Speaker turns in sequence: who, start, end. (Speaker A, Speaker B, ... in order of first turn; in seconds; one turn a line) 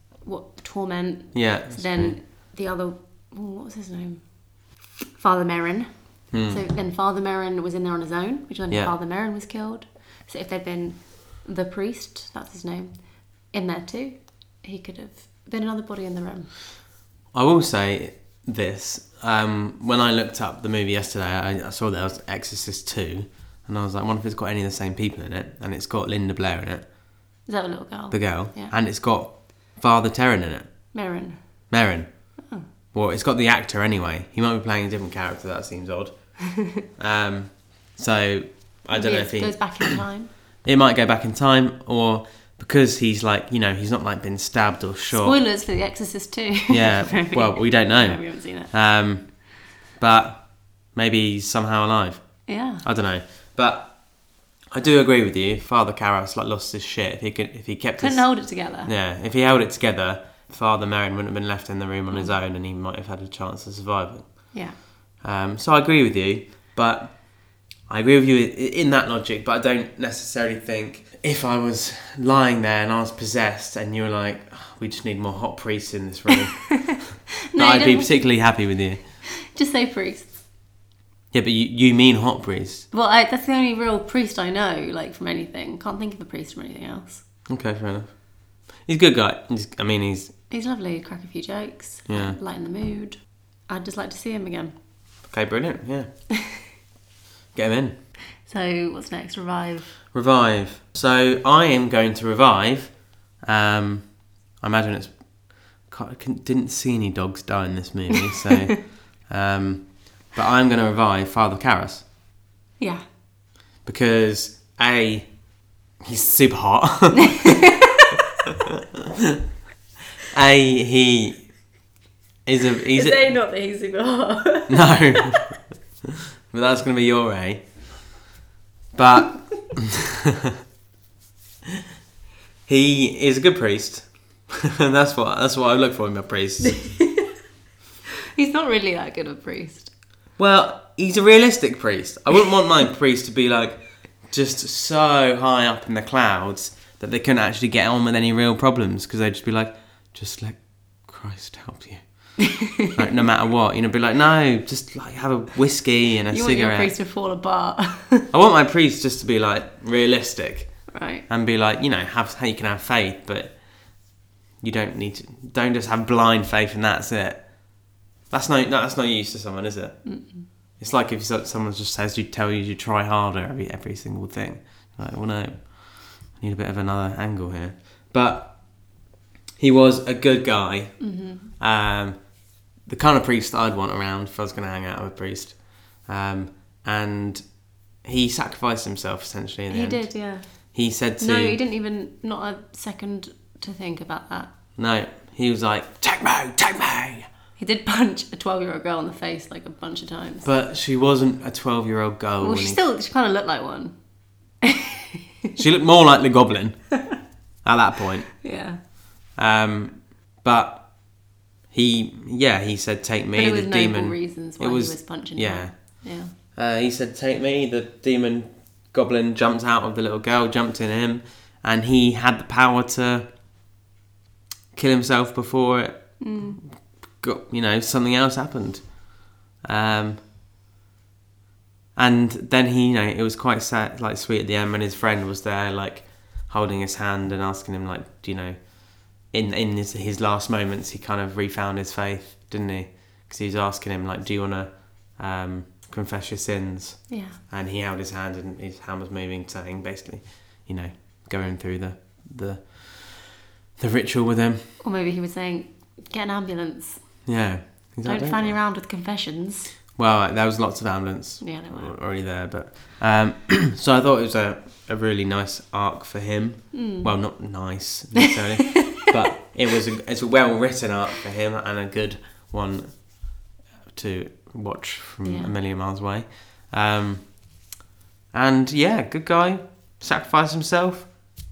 Speaker A: 0.2-4.2
Speaker B: 1.3-2.2
Speaker A: 5.1-12.9
Speaker B: 6.3-6.6
Speaker A: 13.5-16.5
Speaker B: 17.3-26.8
Speaker A: 27.5-28.7
Speaker B: 28.1-30.7
Speaker A: 30.9-31.4
Speaker B: 31.7-32.1
Speaker B: 32.9-36.1
Speaker A: 36.5-36.8
Speaker B: 37.0-40.0
Speaker A: 38.9-40.3
Speaker B: 40.6-45.4
Speaker A: 45.1-48.7
Speaker B: 46.7-49.4
Speaker B: 50.0-54.0
Speaker A: 52.5-52.8
Speaker B: 54.7-58.3
Speaker A: 58.0-58.9
Speaker B: 58.8-64.5
Speaker B: 65.2-67.2
Speaker B: 67.9-79.0
Speaker A: 76.7-78.2
Speaker A: 79.4-80.3
Speaker B: 81.3-82.9
Speaker A: 82.9-87.2
Speaker B: 87.5-88.1
Speaker B: 88.8-90.3
Speaker A: 90.5-94.7
Speaker B: 92.1-92.4
Speaker B: 95.3-96.1
Speaker A: 96.3-96.6
Speaker B: 97.5-97.9
Speaker A: 98.4-99.9
Speaker B: 100.1-105.1
Speaker B: 105.8-112.0
Speaker A: 108.3-108.7
Speaker B: 113.8-115.3
Speaker B: 116.0-117.7
Speaker A: 117.3-118.2
Speaker B: 118.5-119.4
Speaker B: 120.3-121.5
Speaker B: 122.5-123.2
Speaker A: 122.9-125.4
Speaker B: 124.7-127.7
Speaker B: 128.9-130.6
Speaker B: 132.7-136.9
Speaker A: 136.7-137.3
Speaker A: 138.3-139.9
Speaker B: 140.4-152.0
Speaker A: 152.4-153.0
Speaker B: 152.9-156.9
Speaker A: 156.3-158.3
Speaker B: 158.3-163.6
Speaker A: 160.9-161.2
Speaker B: 164.6-167.5
Speaker B: 168.3-170.0
Speaker A: 170.0-170.4
Speaker B: 170.8-178.6
Speaker B: 179.6-181.0
Speaker A: 181.0-181.5
Speaker B: 181.6-182.2
Speaker B: 182.8-187.4
Speaker B: 188.0-190.1
Speaker A: 189.7-190.5
Speaker B: 190.7-191.6
Speaker A: 191.2-194.5
Speaker B: 194.8-197.3
Speaker A: 197.6-200.5
Speaker B: 200.4-202.8
Speaker A: 202.4-203.9
Speaker A: 204.6-205.6
Speaker B: 205.6-206.9
Speaker B: 207.6-208.4
Speaker A: 208.4-208.8
Speaker B: 209.3-210.9
Speaker B: 211.7-216.0
Speaker A: 213.3-216.3
Speaker B: 216.5-223.3
Speaker B: 224.7-226.6
Speaker A: 226.2-226.6
Speaker B: 227.2-228.9
Speaker B: 229.6-230.2
Speaker B: 231.9-254.6
Speaker A: 247.1-247.4
Speaker A: 254.8-257.0
Speaker B: 257.2-258.6
Speaker A: 258.0-259.7
Speaker B: 260.0-273.4
Speaker A: 261.4-261.9
Speaker A: 266.7-267.1
Speaker A: 268.8-269.1
Speaker B: 273.9-277.5
Speaker A: 275.2-275.5
Speaker B: 278.3-281.1